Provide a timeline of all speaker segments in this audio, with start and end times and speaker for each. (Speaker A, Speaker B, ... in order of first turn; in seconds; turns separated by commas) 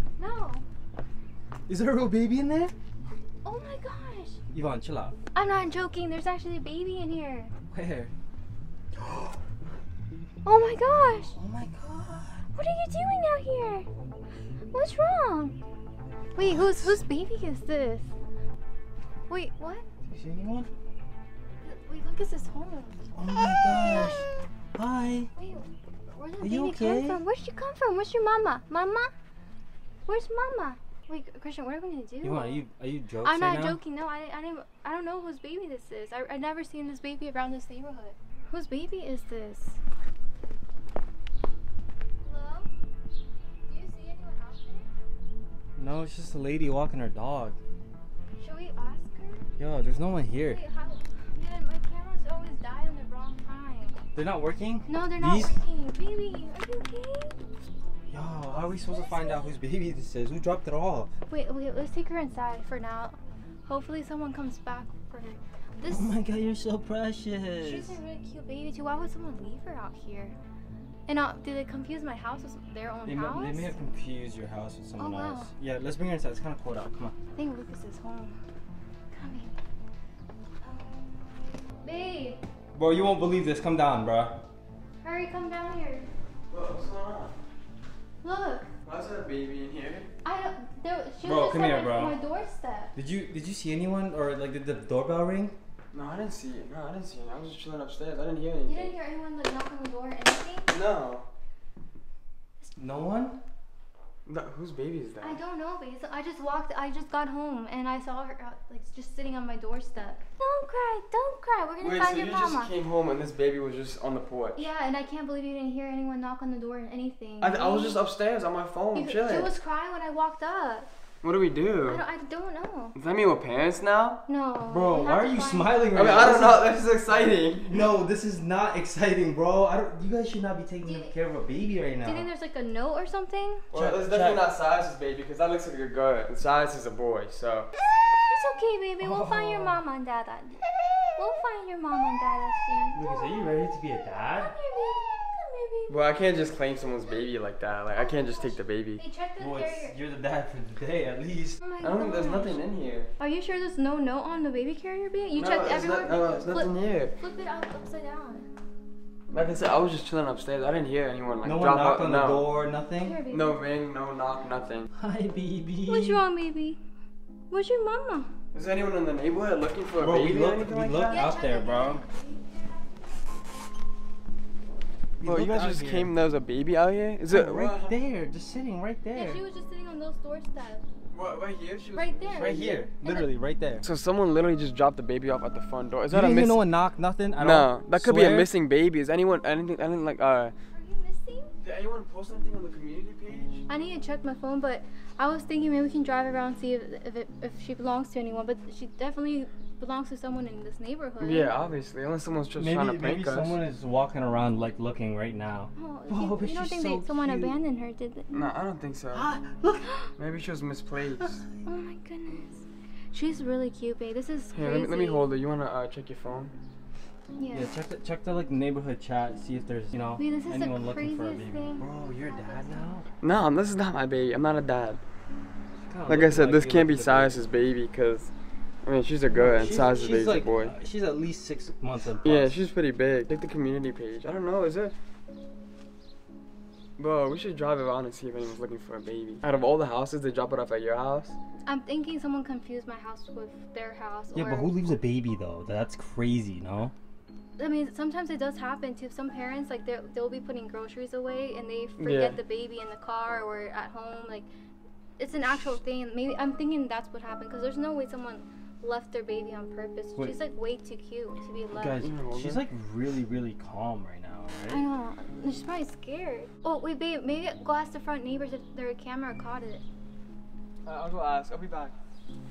Speaker A: 0.2-0.6, Speaker B: 1.7-2.7, Speaker A: 3.4-4.4, Speaker B: 4.5-5.1, Speaker A: 5.3-7.5, Speaker B: 7.7-8.1, Speaker B: 9.0-9.3, Speaker A: 10.4-11.3, Speaker B: 11.3-12.4, Speaker A: 12.5-13.9, Speaker A: 14.7-15.6, Speaker A: 16.3-18.1, Speaker B: 16.4-16.6, Speaker A: 19.3-19.8, Speaker B: 20.1-20.7, Speaker A: 21.6-23.0, Speaker B: 23.1-24.2, Speaker A: 23.6-24.4, Speaker B: 24.7-25.3, Speaker A: 25.4-29.1, Speaker B: 26.4-27.2, Speaker A: 30.1-32.6, Speaker B: 32.2-33.8, Speaker A: 33.2-39.8, Speaker A: 42.2-42.7, Speaker A: 43.6-44.9, Speaker B: 45.8-47.6, Speaker A: 48.4-49.5, Speaker B: 49.6-50.6, Speaker A: 50.5-54.0, Speaker B: 54.1-55.5, Speaker A: 54.9-57.4, Speaker B: 58.1-61.1, Speaker A: 58.9-59.6, Speaker A: 61.3-66.1, Speaker B: 65.9-68.0, Speaker A: 67.6-70.3, Speaker A: 71.1-73.7, Speaker B: 73.0-77.1, Speaker A: 75.0-75.5, Speaker A: 77.3-78.3, Speaker A: 79.1-79.5, Speaker A: 80.6-82.4, Speaker B: 82.7-84.4, Speaker A: 85.0-86.1, Speaker C: 86.5-87.3, Speaker A: 88.2-88.7, Speaker C: 88.8-90.1, Speaker A: 90.2-92.9, Speaker B: 91.2-92.2, Speaker B: 92.9-95.5, Speaker C: 95.9-98.9, Speaker A: 98.6-100.7, Speaker C: 100.7-101.3, Speaker B: 102.8-103.4, Speaker C: 104.2-105.4, Speaker A: 105.2-112.7, Speaker C: 111.8-114.7, Speaker A: 114.5-118.0, Speaker C: 117.4-119.5, Speaker A: 118.9-120.9, Speaker C: 121.2-122.0, Speaker A: 121.8-123.0, Speaker C: 122.9-124.2, Speaker A: 124.3-125.8, Speaker B: 124.7-126.7, Speaker C: 125.9-127.8, Speaker B: 127.7-132.2, Speaker A: 130.8-131.1, Speaker A: 132.0-133.6, Speaker C: 133.7-137.7, Speaker B: 133.7-134.4, Speaker A: 138.3-140.6, Speaker B: 139.0-139.8, Speaker A: 141.2-143.7, Speaker B: 142.9-144.5, Speaker A: 144.2-146.0, Speaker C: 145.9-149.0, Speaker A: 147.9-150.0, Speaker B: 149.4-151.6, Speaker A: 151.6-152.6, Speaker C: 151.8-153.1, Speaker A: 153.2-158.5, Speaker C: 155.3-157.1, Speaker C: 159.3-162.5, Speaker B: 161.4-163.2, Speaker A: 163.0-163.6, Speaker C: 163.3-164.9, Speaker B: 164.9-166.2, Speaker A: 165.9-166.8, Speaker A: 167.5-168.3, Speaker C: 168.5-171.3, Speaker B: 170.0-172.0, Speaker A: 171.1-172.6, Speaker B: 175.2-176.1, Speaker C: 175.2-178.0, Speaker B: 177.3-179.4, Speaker A: 179.1-180.8, Speaker C: 181.1-182.9, Speaker A: 181.9-183.3, Speaker B: 182.3-183.8, Speaker C: 183.8-186.6, Speaker B: 186.1-188.5, Speaker C: 187.4-190.5, Speaker A: 190.7-191.5, Speaker C: 191.6-193.6, Speaker A: 193.7-201.5, Speaker C: 201.2-203.6, Speaker B: 202.6-207.5, Speaker A: 205.8-208.3, Speaker C: 208.3-209.3, Speaker B: 209.1-209.9, Speaker C: 210.2-211.4, Speaker A: 211.6-215.3, Speaker C: 214.5-216.5, Speaker A: 217.3-217.7, Speaker B: 217.5-223.0, Speaker A: 220.2-222.9, Speaker C: 223.2-225.0, Speaker B: 225.8-227.4, Speaker C: 226.1-228.3, Speaker C: 228.8-230.7, Speaker B: 229.3-232.5, Speaker C: 232.2-234.9, Speaker C: 237.0-241.3, Speaker A: 241.6-244.7, Speaker B: 244.3-246.9, Speaker A: 247.6-254.5, Speaker C: 252.0-252.4, Speaker A: 255.2-262.0, Speaker B: 261.7-264.8, Speaker C: 261.9-262.6, Speaker A: 264.7-269.8, Speaker C: 270.8-271.9